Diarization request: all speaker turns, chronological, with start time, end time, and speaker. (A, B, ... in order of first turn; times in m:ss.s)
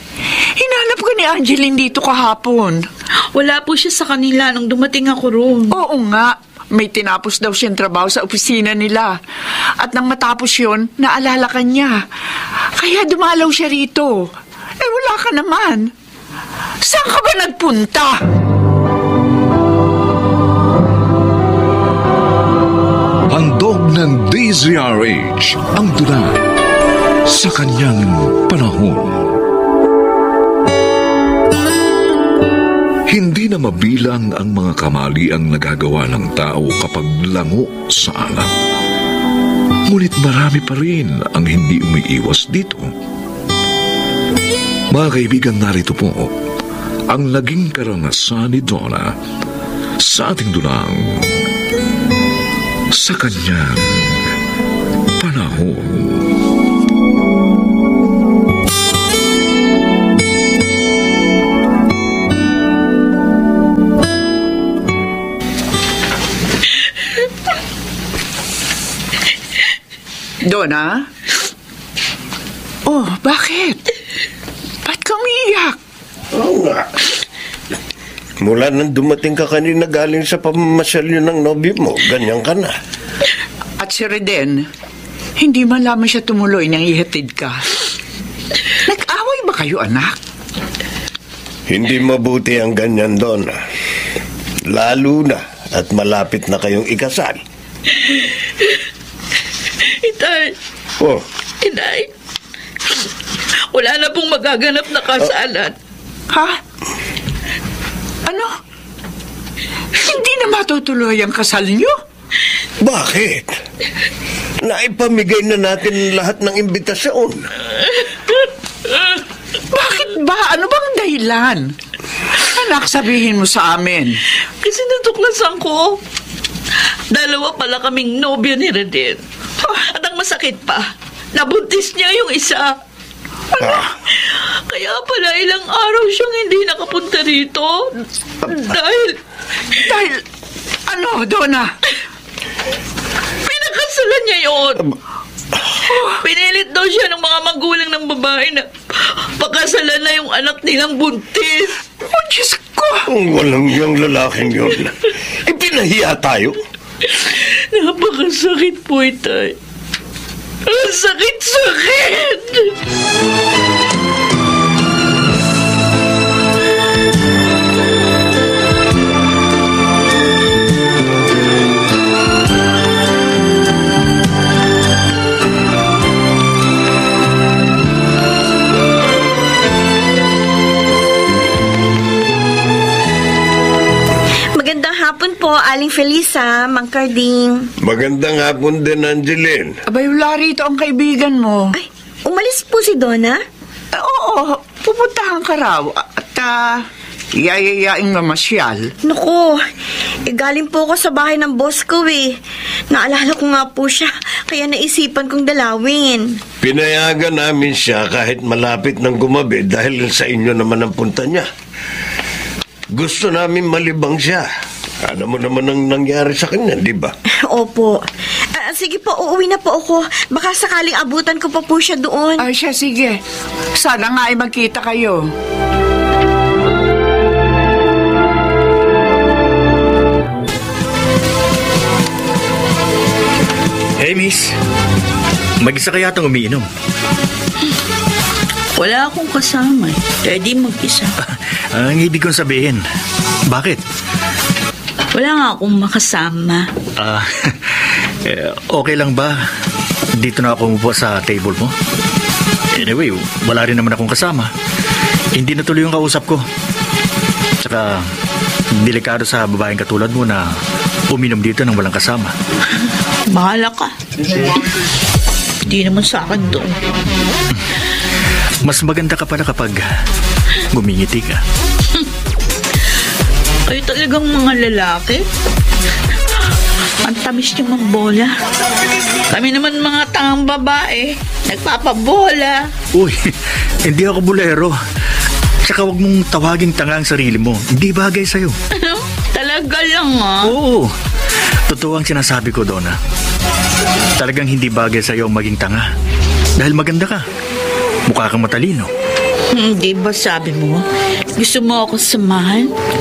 0:00.6-0:02.8 A
0:03.3-0:05.8 B
0:05.7-0:09.1 A
0:09.8-0:12.0 A
0:12.8-0:14.2 A
0:14.8-0:15.9 A
0:16.8-0:18.2 A
0:23.3-0:26.4 C
0:27.3-0:29.4 C
0:33.1-0:38.5 C
0:39.9-0:42.9 C
0:44.9-0:46.3 C
0:47.1-0:49.1 C
0:50.0-0:51.3 C
0:52.9-0:54.1 C
0:55.2-0:56.3 C
1:10.4-1:11.0 A
1:12.8-1:13.8 A
1:14.8-1:15.8 A
1:16.3-1:16.9 D
1:18.4-1:22.7 D
1:23.8-1:24.6 A
1:25.4-1:27.6 A
1:28.8-1:30.2 A
1:31.7-1:33.6 D
1:34.7-1:37.4 D
1:37.9-1:38.8 B
1:39.8-1:40.5 B
1:41.6-1:42.1 B
1:43.7-1:45.7 B
1:46.3-1:46.6 A
1:48.2-1:48.5 A
1:49.9-1:51.9 A
1:52.8-1:53.5 D
1:54.6-1:57.4 D
1:57.8-1:59.2 B
1:59.7-2:01.7 A
2:02.3-2:04.2 A
2:04.6-2:06.0 B
2:07.1-2:12.7 B
2:13.5-2:19.2 B
2:19.8-2:20.2 A
2:20.9-2:21.7 A
2:23.4-2:24.9 B
2:25.8-2:26.2 A
2:26.2-2:31.8 B
2:32.0-2:33.1 A
2:33.1-2:36.6 D
2:37.0-2:39.6 B
2:40.6-2:42.7 B
3:04.6-3:07.6 E
3:07.8-3:09.8 D
3:09.9-3:11.8 A
3:12.2-3:13.4 E
3:13.9-3:16.7 A
3:17.4-3:18.9 A
3:19.0-3:19.6 E
3:20.2-3:22.3 E
3:22.9-3:26.3 E
3:26.6-3:31.4 D
3:32.9-3:34.5 D
3:35.0-3:37.1 D
3:37.5-3:38.0 E
3:38.6-3:42.4 E
3:42.4-3:43.2 A
3:43.8-3:45.2 A
3:54.0-3:54.6 F
3:55.6-3:56.7 F
3:58.8-4:01.2 B
4:01.2-4:02.8 F
4:03.5-4:03.8 F
4:05.1-4:06.7 B
4:07.0-4:07.6 F
4:08.2-4:09.4 F
4:10.1-4:11.7 F
4:12.7-4:14.5 F
4:15.3-4:16.4 F
4:17.6-4:18.1 F
4:18.7-4:20.5 F
4:21.1-4:22.3 F
4:23.3-4:23.9 B
4:25.7-4:26.9 B
4:28.6-4:29.9 F
4:30.7-4:31.4 F
4:33.7-4:35.2 B
4:37.0-4:38.3 B
4:39.3-4:42.7 B
4:42.9-4:44.8 F
4:45.6-4:48.6 F
4:48.7-4:50.5 B
4:50.4-4:50.9 F
4:51.7-4:53.0 F
4:54.2-4:55.9 F
4:56.6-4:57.2 F
4:58.0-4:58.9 F
4:59.5-5:00.8 B
5:01.4-5:02.7 B